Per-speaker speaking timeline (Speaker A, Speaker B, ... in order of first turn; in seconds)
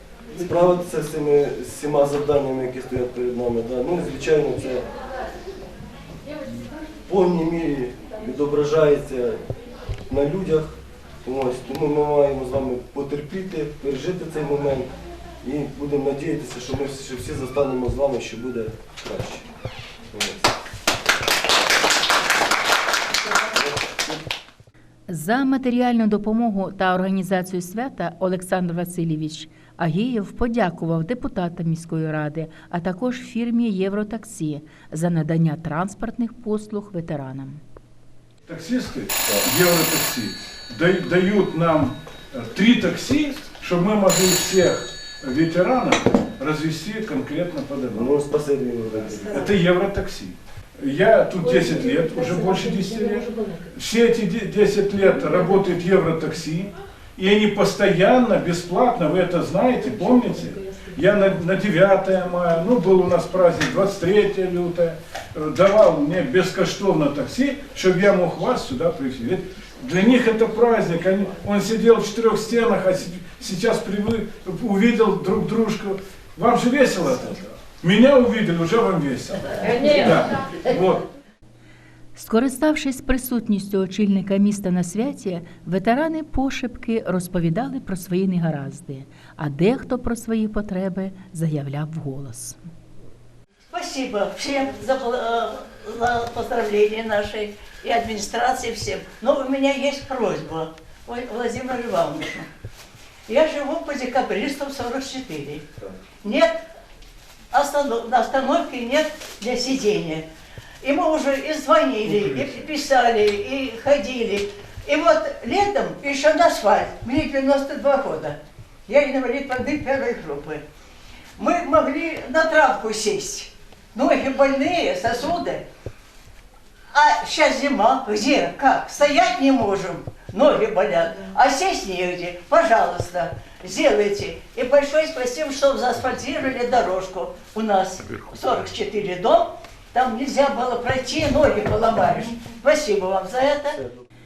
Speaker A: 0.3-4.8, 7.0-9.4, 10.1-14.9, 15.4-19.4, 20.1-20.5, 23.5-24.2, 47.9-49.5, 143.7-144.0
Speaker B: 25.1-37.6, 82.1-92.6
Speaker C: 38.5-48.2, 49.3-81.0
Speaker D: 93.7-102.5, 103.3-105.7, 106.2-106.6, 107.5-110.2, 110.8-120.6, 121.4-125.6, 126.9-143.8